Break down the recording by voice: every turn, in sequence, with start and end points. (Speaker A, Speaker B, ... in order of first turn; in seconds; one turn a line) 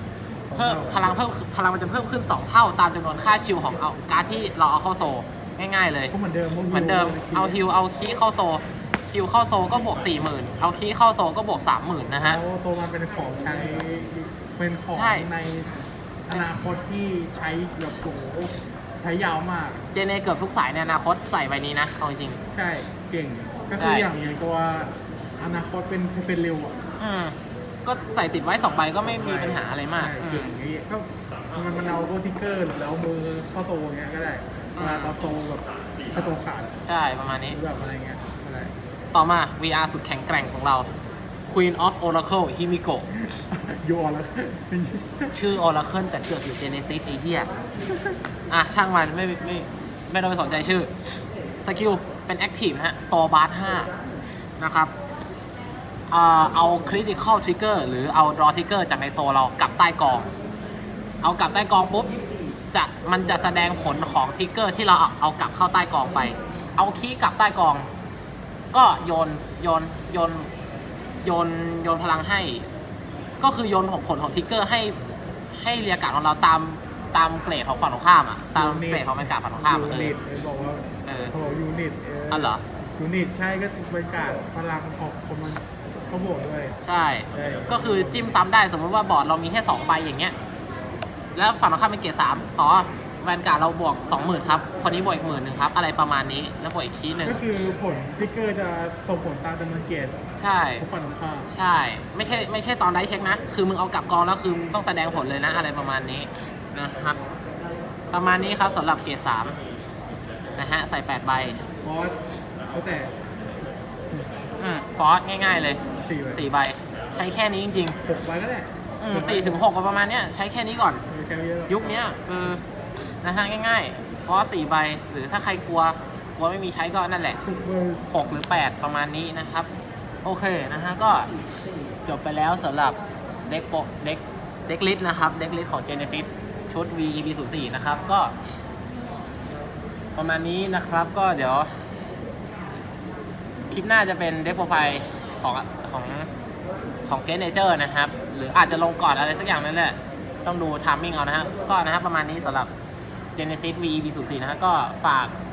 Speaker A: 0.5-1.2
Speaker B: 0.5-6.1
Speaker A: 6.1-7.6
Speaker B: 6.7-12.4
Speaker A: 12.1-19.8
Speaker B: 14.9-15.3
Speaker B: 19.9-22.4
Speaker A: 22.5-26.8
Speaker B: 23.8-24.1
Speaker B: 27.0-30.5
Speaker A: 29.0-35.6
Speaker B: 34.8-35.1
Speaker A: 36.1-36.7
Speaker B: 36.9-37.6
Speaker A: 37.5-38.7
Speaker B: 39.1-40.9
Speaker B: 41.5-43.1
Speaker A: 43.1-45.4
Speaker B: 45.3-47.5
Speaker A: 47.9-48.1
Speaker B: 48.5-50.9
Speaker B: 51.6-53.9
Speaker B: 54.6-54.9
Speaker B: 56.1-60.3
Speaker B: 61.2-62.1
Speaker B: 62.7-67.9
Speaker B: 68.7-70.5
Speaker B: 71.2-72.7
Speaker B: 73.4-75.0
Speaker B: 75.6-80.2
Speaker A: 78.5-86.8
Speaker B: 81.0-81.3
Speaker B: 82.3-82.6
Speaker B: 86.8-90.3
Speaker A: 87.3-88.4
Speaker B: 91.4-97.4
Speaker A: 97.2-100.2
Speaker B: 100.4-100.9
Speaker A: 100.8-101.5
Speaker B: 101.5-107.2
Speaker B: 108.1-109.6
Speaker B: 110.6-111.6
Speaker A: 111.8-112.2
Speaker A: 112.7-113.1
Speaker B: 114.6-115.8
Speaker A: 116.0-116.5
Speaker B: 116.3-118.0
Speaker A: 118.0-119.6
Speaker B: 119.0-121.0
Speaker A: 121.1-122.0
Speaker B: 121.7-122.6
Speaker B: 123.2-127.4
Speaker A: 127.5-128.1
Speaker B: 128.1-129.7
Speaker B: 130.2-131.3
Speaker B: 132.1-133.0
Speaker B: 133.5-138.3
Speaker B: 140.2-141.8
Speaker B: 143.7-146.3
Speaker B: 147.1-152.7
Speaker B: 153.4-155.3